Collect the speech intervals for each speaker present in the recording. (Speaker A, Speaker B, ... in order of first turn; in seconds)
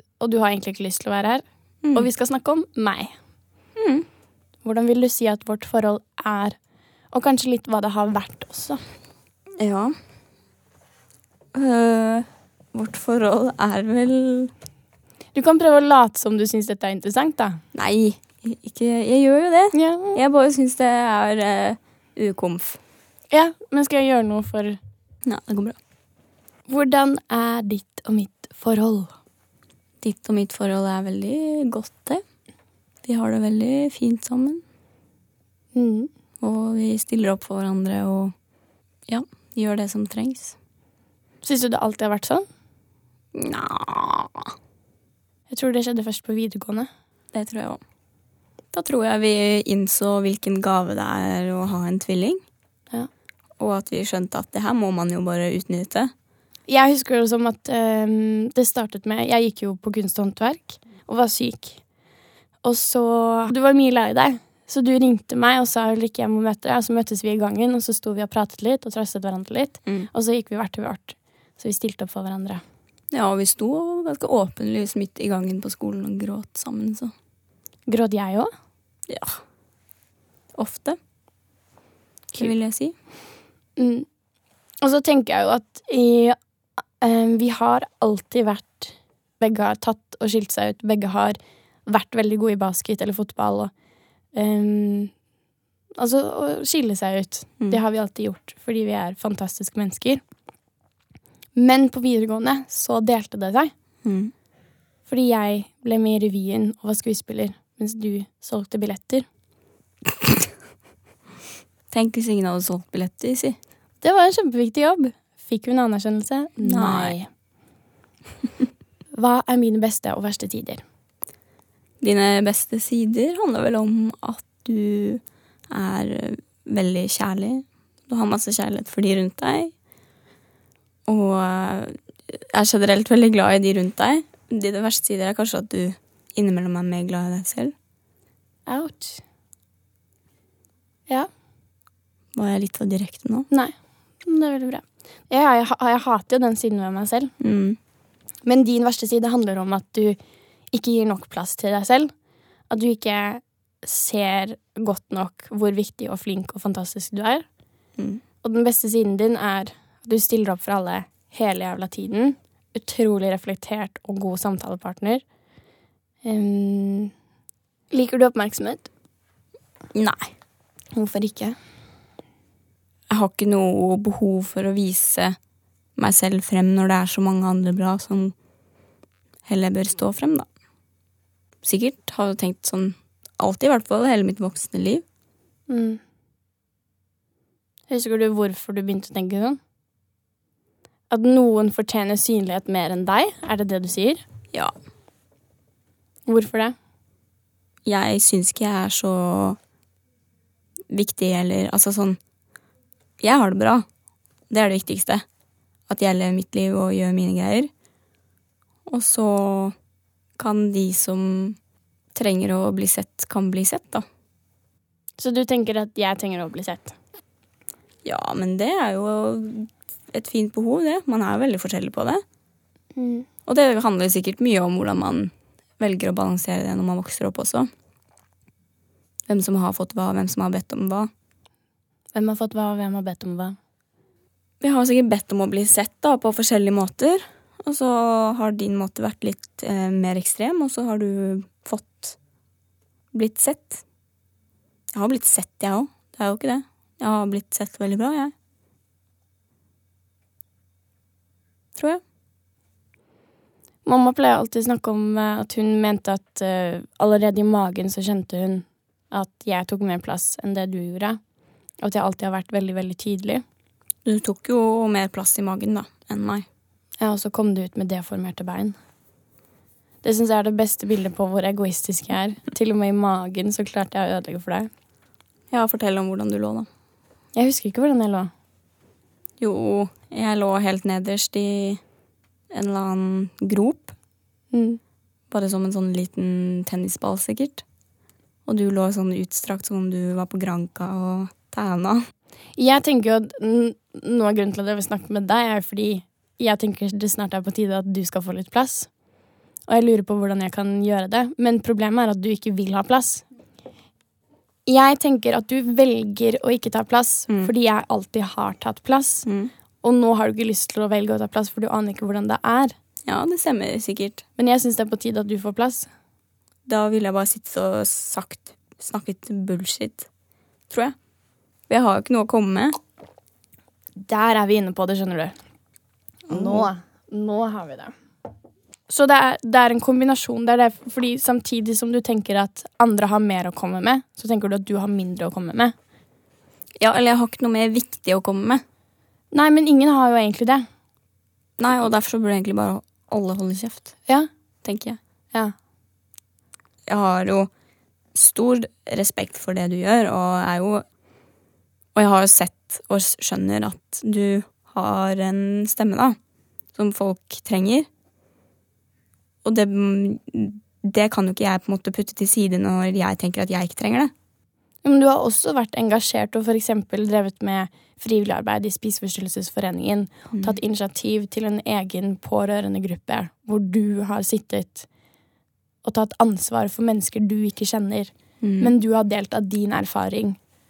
Speaker A: 0.2-3.1, 4.6-6.6, 7.1-8.8, 15.3-17.6, 19.7-20.2, 23.3-24.8, 26.7-29.1, 35.8-36.1, 41.4-42.5, 45.5-46.9, 56.7-61.9, 62.6-72.6, 77.9-78.5, 83.8-84.1, 84.8-86.4, 87.0-93.7, 94.3-95.1, 96.0-100.2, 101.6-103.7, 105.1-109.2, 114.0-117.3, 119.1-120.8, 138.7-139.2, 143.5-147.3, 148.4-150.2, 150.7-152.1, 152.7-157.5, 158.4-165.2, 166.2-167.1, 167.9-168.9, 170.9-171.6, 185.7-186.0, 187.9-189.6, 191.1-194.2, 196.3-196.8, 215.2-216.9, 222.9-223.3, 232.1-233.6, 253.8-261.2, 261.8-263.4, 267.0-268.8, 270.0-274.7, 277.3-278.3, 284.5-284.8, 292.6-298.9, 299.7-303.2, 304.6-309.3, 309.8-312.8, 314.4-315.9, 324.0-325.4, 326.3-328.0, 328.9-335.8, 339.3-340.6, 364.8-374.9, 375.8-380.4
Speaker B: 3.8-4.1, 9.6-10.0, 11.6-14.5, 17.7-22.8, 25.2-25.8, 30.0-32.2, 33.0-34.6, 36.4-38.3, 39.1-40.5, 43.3-44.5, 47.3-47.8, 48.7-52.4, 53.6-56.1, 73.1-77.1, 79.1-79.4, 80.5-81.0, 82.3-82.9, 104.0-104.3, 111.9-113.6, 116.6-117.2, 122.0-129.7, 131.1-137.7, 142.4-143.5, 147.4-147.8, 158.0-158.2, 169.9-170.3, 173.1-175.4, 175.9-178.3, 179.4-180.5, 181.6-185.0, 197.8-199.6, 200.9-202.2, 203.2-203.9, 204.5-205.2, 205.9-207.7, 208.9-209.8, 210.4-211.6, 212.1-214.1, 218.0-222.2, 223.4-227.7, 229.3-231.1, 234.6-242.2, 243.1-243.8, 244.9-248.3, 251.8-252.0, 264.0-266.5, 275.5-276.7, 279.4-281.8, 282.5-283.9, 285.3-287.6, 288.4-292.1, 309.2-309.5, 313.1-314.2, 316.6-320.1, 320.7-321.0, 321.7-322.8, 326.3-326.7, 336.8-338.6, 341.6-344.0, 344.6-345.0, 346.9-347.5, 348.1-350.9, 351.9-356.2, 356.8-357.9, 359.4-364.1, 378.4-378.7